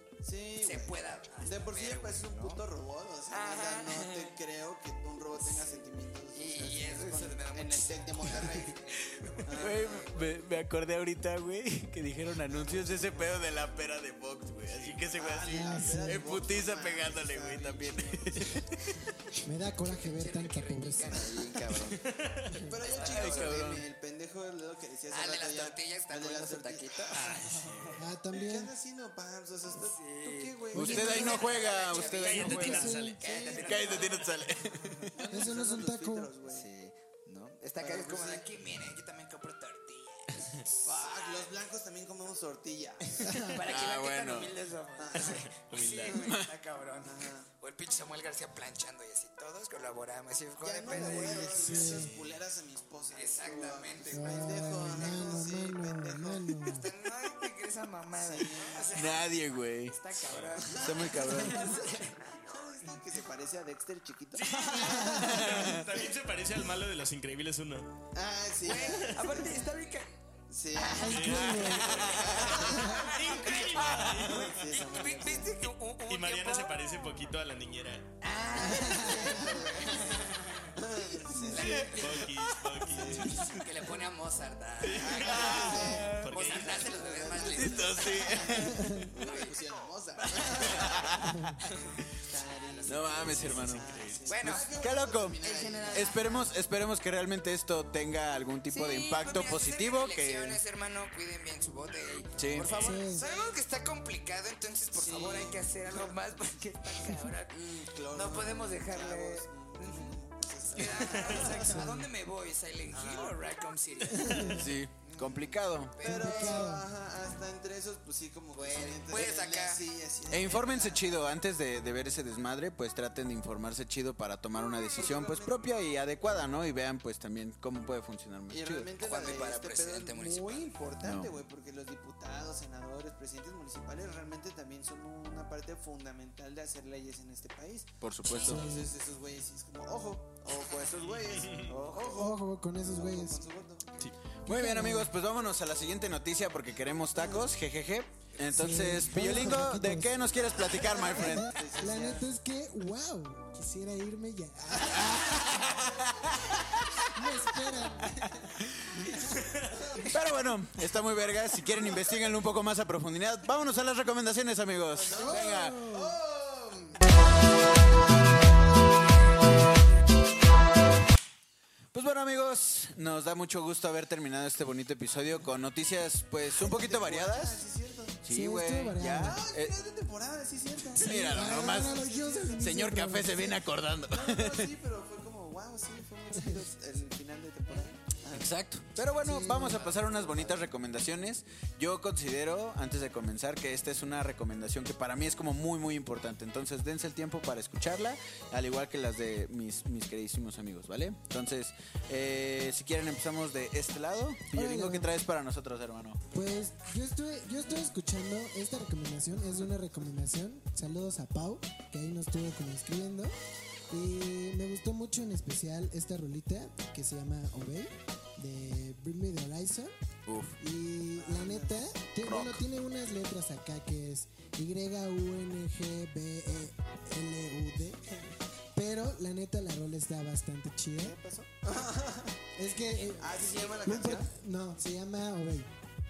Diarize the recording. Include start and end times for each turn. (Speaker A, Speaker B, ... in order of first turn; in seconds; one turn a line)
Speaker A: 0.2-10.1
Speaker B: 0.6-2.6
Speaker B: 3.3-4.3
Speaker B: 6.3-10.3
Speaker C: 9.6-19.2
Speaker A: 12.5-13.3
Speaker D: 14.7-15.1
Speaker A: 15.1-18.6
Speaker E: 15.4-16.2
Speaker E: 19.4-21.4
Speaker B: 19.8-22.1
Speaker D: 21.8-22.6
Speaker E: 22.5-22.8
Speaker A: 22.6-31.6
Speaker B: 22.8-23.7
Speaker C: 23.0-23.8
Speaker B: 25.1-28.0
Speaker D: 27.1-28.0
Speaker E: 28.0-28.7
Speaker B: 29.8-35.1
Speaker C: 30.7-33.0
Speaker E: 30.7-31.5
Speaker D: 31.9-34.0
Speaker E: 32.5-33.2
Speaker A: 33.2-34.1
Speaker C: 33.5-35.1
Speaker A: 35.1-36.7
Speaker E: 35.3-36.3
Speaker B: 36.5-41.5
Speaker A: 37.8-38.5
Speaker A: 40.8-43.5
Speaker E: 43.2-43.6
Speaker B: 43.5-52.1
Speaker C: 43.6-44.5
Speaker A: 45.0-45.5
Speaker D: 45.1-46.2
Speaker C: 46.1-46.5
Speaker A: 47.0-47.5
Speaker A: 50.6-56.8
Speaker E: 50.9-52.1
Speaker D: 51.8-52.2
Speaker B: 53.1-54.9
Speaker E: 54.1-56.9
Speaker B: 56.7-63.0
Speaker A: 58.1-59.0
Speaker C: 58.9-60.1
Speaker D: 60.3-60.6
Speaker A: 60.6-66.1
Speaker C: 60.8-61.8
Speaker D: 64.3-68.0
Speaker C: 65.0-65.9
Speaker A: 68.1-69.8
Speaker B: 68.6-70.2
Speaker D: 68.9-69.4
Speaker A: 70.5-73.2
Speaker B: 70.7-76.7
Speaker E: 70.8-72.1
Speaker D: 70.9-74.6
Speaker C: 71.9-72.3
Speaker E: 72.7-73.0
Speaker C: 73.9-74.2
Speaker A: 74.2-75.6
Speaker D: 76.1-78.2
Speaker B: 78.2-82.3
Speaker A: 78.5-82.0
Speaker C: 81.5-83.6
Speaker D: 81.8-83.7
Speaker A: 82.8-83.4
Speaker B: 82.9-96.5
Speaker C: 84.9-86.3
Speaker D: 84.9-87.0
Speaker A: 85.0-91.2
Speaker C: 87.3-89.4
Speaker C: 90.6-91.5
Speaker A: 92.1-96.3
Speaker C: 92.8-93.9
Speaker D: 93.2-94.4
Speaker C: 94.4-100.6
Speaker B: 98.7-116.7
Speaker C: 102.4-102.8
Speaker D: 102.5-103.1
Speaker E: 102.8-103.3
Speaker A: 103.2-103.6
Speaker A: 104.9-106.1
Speaker A: 107.5-112.0
Speaker D: 111.0-111.5
Speaker E: 111.4-112.1
Speaker A: 112.9-113.4
Speaker E: 114.1-114.7
Speaker C: 114.4-116.0
Speaker A: 116.0-121.1
Speaker E: 116.0-116.9
Speaker B: 118.5-119.8
Speaker C: 120.3-128.9
Speaker A: 124.9-125.7
Speaker A: 128.5-143.9
Speaker B: 129.0-130.7
Speaker C: 131.0-131.3
Speaker C: 138.0-138.6
Speaker E: 138.4-138.9
Speaker B: 140.5-140.8
Speaker D: 141.1-141.7
Speaker B: 141.6-142.2
Speaker E: 142.1-143.4
Speaker E: 144.4-145.1
Speaker C: 144.4-151.6
Speaker A: 147.1-147.5
Speaker E: 148.5-150.3
Speaker A: 150.7-152.3
Speaker E: 150.9-155.7
Speaker A: 154.7-156.2
Speaker C: 154.8-157.0
Speaker E: 157.1-158.5
Speaker A: 159.7-160.1
Speaker C: 160.1-165.8
Speaker A: 164.9-169.0
Speaker E: 165.1-166.2
Speaker C: 171.9-177.6
Speaker A: 176.6-178.2
Speaker C: 178.2-179.7
Speaker E: 178.3-179.4
Speaker A: 179.1-182.7
Speaker C: 180.9-184.7
Speaker E: 181.0-183.6
Speaker A: 184.1-188.5
Speaker B: 187.7-187.9
Speaker C: 188.3-206.2
Speaker E: 189.2-189.8
Speaker B: 189.4-190.6
Speaker A: 189.8-190.5
Speaker E: 204.5-205.1
Speaker E: 206.3-213.3
Speaker E: 213.9-219.9
Speaker C: 220.2-220.6
Speaker E: 220.6-231.2
Speaker A: 221.2-221.9
Speaker C: 222.2-222.6
Speaker A: 231.0-232.4
Speaker E: 232.5-235.7
Speaker B: 232.7-234.0
Speaker A: 233.1-234.3